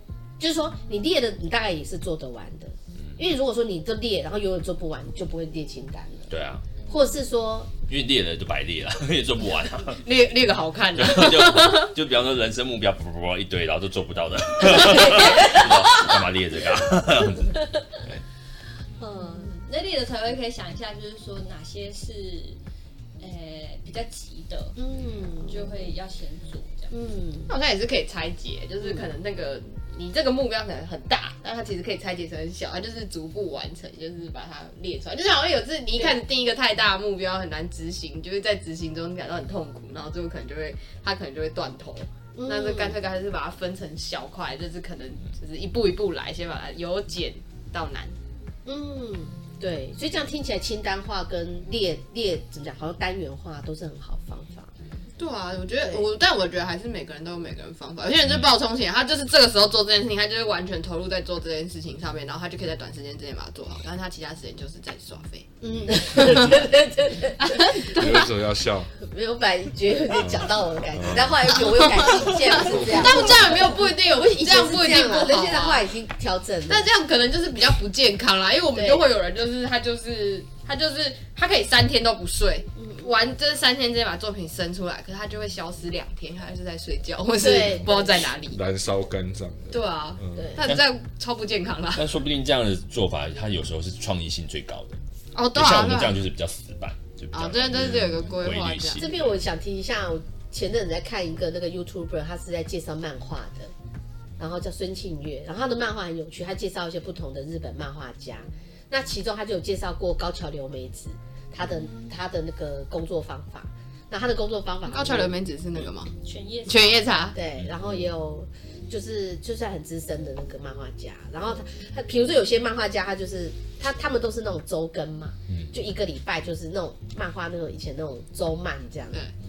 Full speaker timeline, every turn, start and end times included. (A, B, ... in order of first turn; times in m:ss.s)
0:00.4-0:06.3 A
0:06.3-0:06.7 B
0:06.9-0:07.7 A
0:07.9-0:10.0 B
0:10.0-0:11.9 C
0:11.0-0:18.2 B
0:19.0-0:19.5 A
0:19.3-0:22.6 D
0:23.2-0:24.8 D
0:24.8-0:25.7 A
0:25.0-0:25.2 B
0:25.4-0:26.9 D
0:26.9-0:27.5 A
0:27.5-0:48.2 C
0:28.8-0:29.1 A
0:42.4-0:43.0 A
0:48.7-0:54.7 A
0:55.2-1:05.5 C
1:05.6-1:08.0 A
1:06.1-1:06.5 C
1:07.4-1:08.3 C
1:07.9-1:08.9 E
1:09.0-1:16.9 A
1:10.2-1:11.3 E
1:11.7-1:15.9 C
1:16.7-1:28.6 C
1:18.7-1:19.1 A
1:22.8-1:23.1 A
1:27.4-1:28.2 A
1:28.5-1:30.5 E
1:29.7-1:32.2 C
1:30.4-1:30.6 A
1:30.6-1:30.9 B
1:32.0-1:35.0 B
1:35.3-1:36.2 C
1:35.6-1:39.3 B
1:37.3-1:39.1 C
1:39.0-1:43.7 A
1:44.4-1:55.4 A
1:54.8-1:56.1 C
1:56.2-1:57.3 D
1:56.7-1:57.4 C
1:57.3-2:09.3 A
2:05.5-2:05.7 B